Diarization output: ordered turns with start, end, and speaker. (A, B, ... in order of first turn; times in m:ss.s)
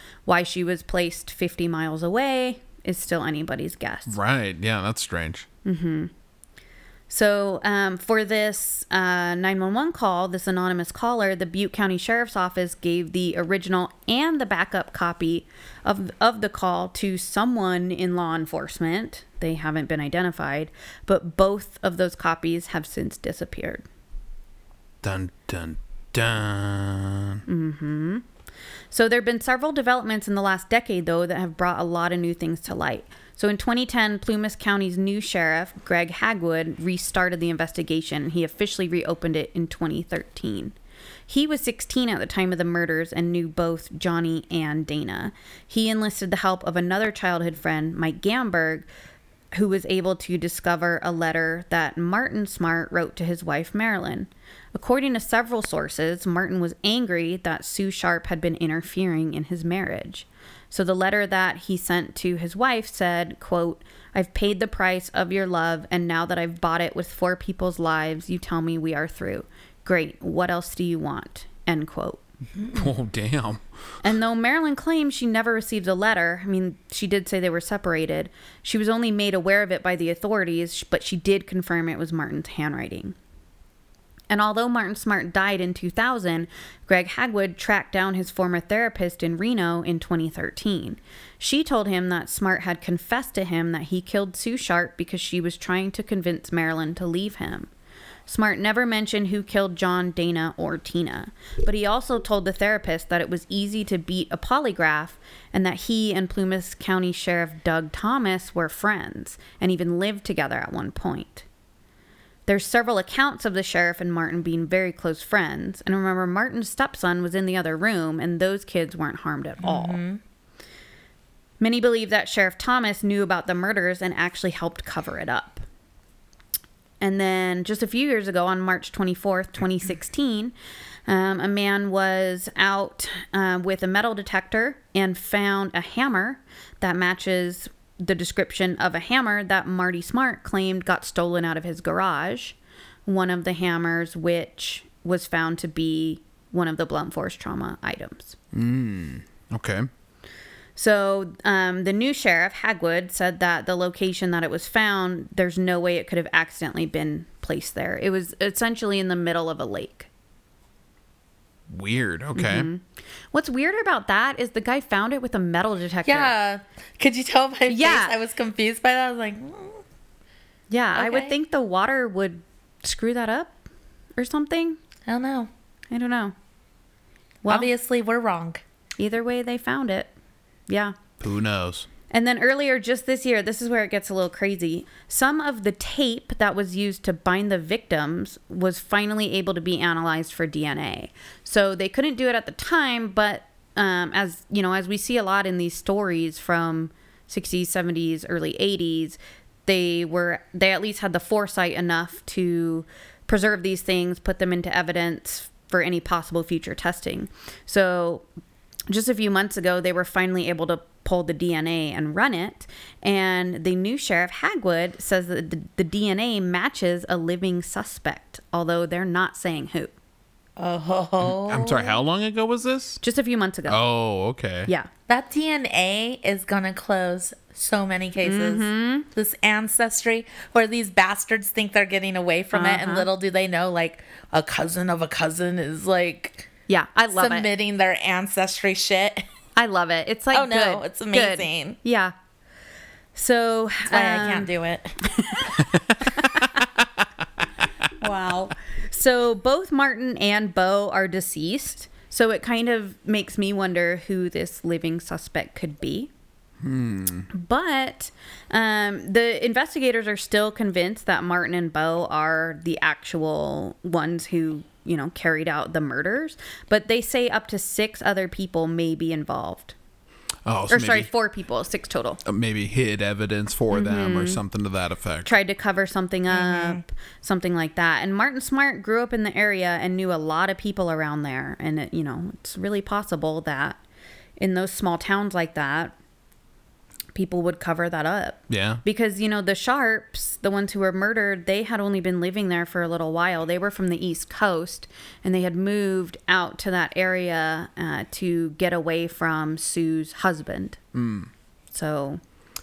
0:00.3-0:04.2 A
0:04.1-0:05.5 B
0:05.6-0:06.1 A
0:07.1-0:23.8 A
0:25.0-0:27.4 B
0:27.5-0:28.2 A
0:28.9-0:40.8 A
0:41.3-0:48.9 A
0:49.5-1:12.2 A
1:12.7-1:13.6 B
1:14.0-1:23.2 A
1:24.3-1:37.7 A
1:38.3-1:51.5 A
1:52.5-2:00.0 A
1:59.6-2:00.2 C
2:01.6-2:05.6 A
2:07.0-2:10.5 A
2:11.1-2:28.4 A
2:28.5-2:29.9 B
2:30.8-2:40.1 A
2:41.7-2:42.7 B
2:42.4-2:46.3 A
2:46.0-2:49.8 C
2:47.7-2:48.2 A
2:50.7-2:53.6 A
2:51.0-2:51.3 C
2:54.2-2:54.8 A
2:55.1-2:55.5 C
2:55.9-2:56.3 A
2:57.4-2:57.7 A
2:57.5-2:58.6 C
2:59.0-3:00.1 A
3:00.7-3:01.0 A
3:01.2-3:01.9 B
3:02.1-3:28.3 A
3:28.9-3:39.9 A
3:40.6-3:42.0 C
3:41.2-3:43.0 B
3:43.0-3:43.8 A
3:43.7-3:44.7 B
3:45.1-3:56.5 C
3:48.2-3:49.1 A
3:52.5-3:53.1 A
3:56.7-3:57.5 A
3:57.1-3:59.2 C
3:59.6-4:02.1 A
4:00.3-4:01.8 C
4:03.2-4:04.5 A
4:03.9-4:05.0 C
4:05.1-4:06.6 A
4:08.0-4:16.1 A
4:16.6-4:17.3 B
4:17.3-4:29.8 A
4:30.4-4:31.1 B
4:30.7-4:32.2 A
4:32.2-4:35.3 B
4:33.7-4:34.4 A
4:35.2-4:43.8 A
4:36.3-4:36.8 C
4:44.4-4:46.0 A
4:47.2-5:00.8 A
4:48.5-4:48.8 B
5:00.9-5:01.3 B
5:01.7-5:02.2 A